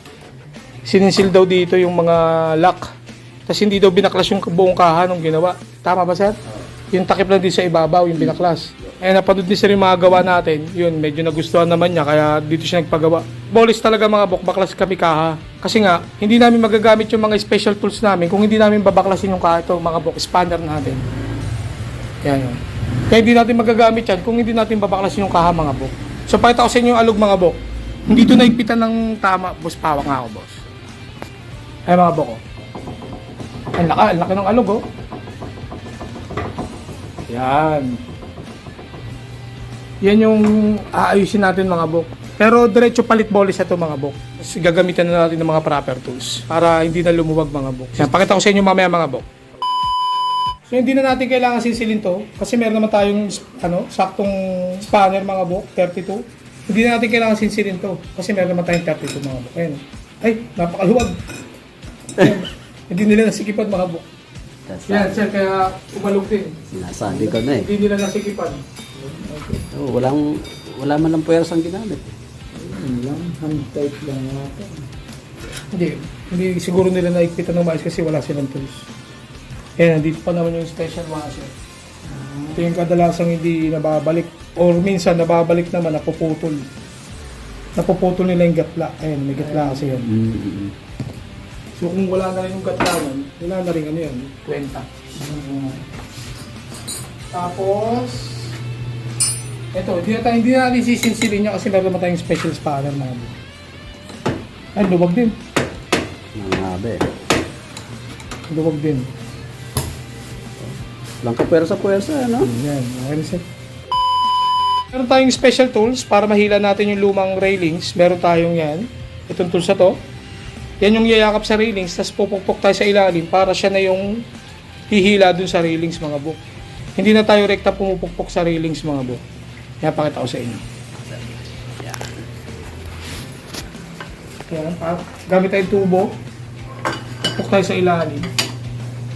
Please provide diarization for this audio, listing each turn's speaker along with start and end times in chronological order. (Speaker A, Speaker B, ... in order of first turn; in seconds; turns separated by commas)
Speaker A: 0.8-2.9, Speaker A: 3.5-6.3, Speaker A: 6.9-21.0, Speaker A: 22.2-30.6, Speaker A: 31.9-32.4, Speaker A: 33.8-34.8, Speaker A: 37.3-38.0, Speaker A: 40.0-49.2, Speaker A: 50.7-61.2, Speaker A: 62.1-64.0, Speaker B: 64.7-65.2, Speaker A: 64.9-68.6, Speaker B: 66.7-67.7, Speaker B: 69.7-72.1, Speaker A: 72.6-74.7, Speaker A: 75.7-78.9, Speaker A: 79.8-81.5, Speaker A: 82.5-86.7, Speaker A: 87.8-90.1, Speaker B: 90.0-90.7, Speaker A: 91.8-95.8, Speaker A: 97.3-98.5, Speaker A: 99.7-103.3, Speaker A: 104.7-105.3, Speaker B: 106.3-107.1, Speaker A: 108.5-109.1, Speaker B: 110.6-112.5, Speaker A: 112.4-113.4, Speaker A: 114.9-120.0, Speaker A: 120.8-124.2, Speaker A: 124.9-126.4, Speaker A: 127.0-129.2, Speaker A: 129.8-130.6, Speaker A: 134.5-136.1, Speaker A: 137.2-138.3